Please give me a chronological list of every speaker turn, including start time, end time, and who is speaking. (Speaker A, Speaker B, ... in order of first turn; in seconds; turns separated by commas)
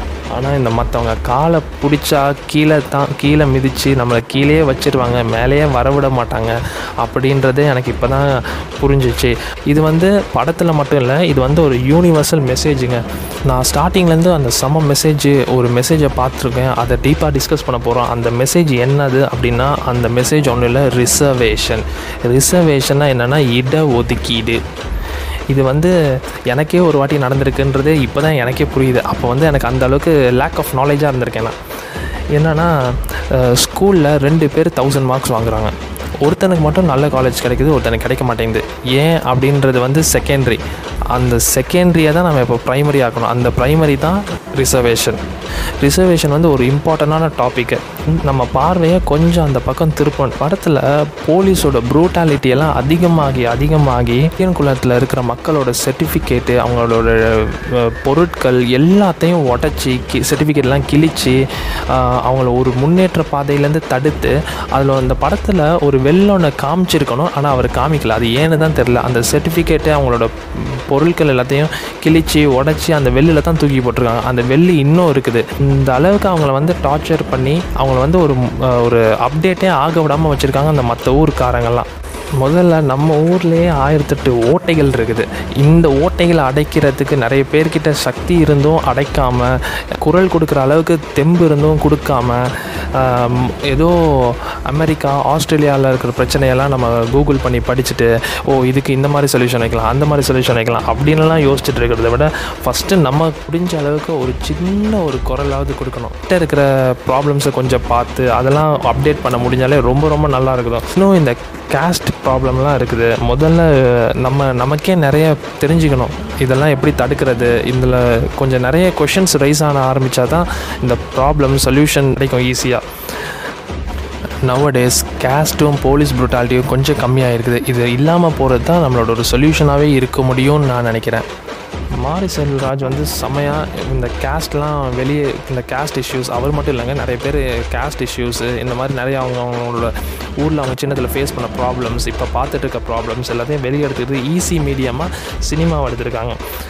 Speaker A: 0.3-24.6, Speaker A: 25.5-25.9, Speaker A: 26.5-31.6, Speaker A: 32.3-45.2, Speaker A: 45.8-81.9, Speaker A: 82.4-123.4, Speaker A: 124.4-131.2, Speaker A: 132.0-146.4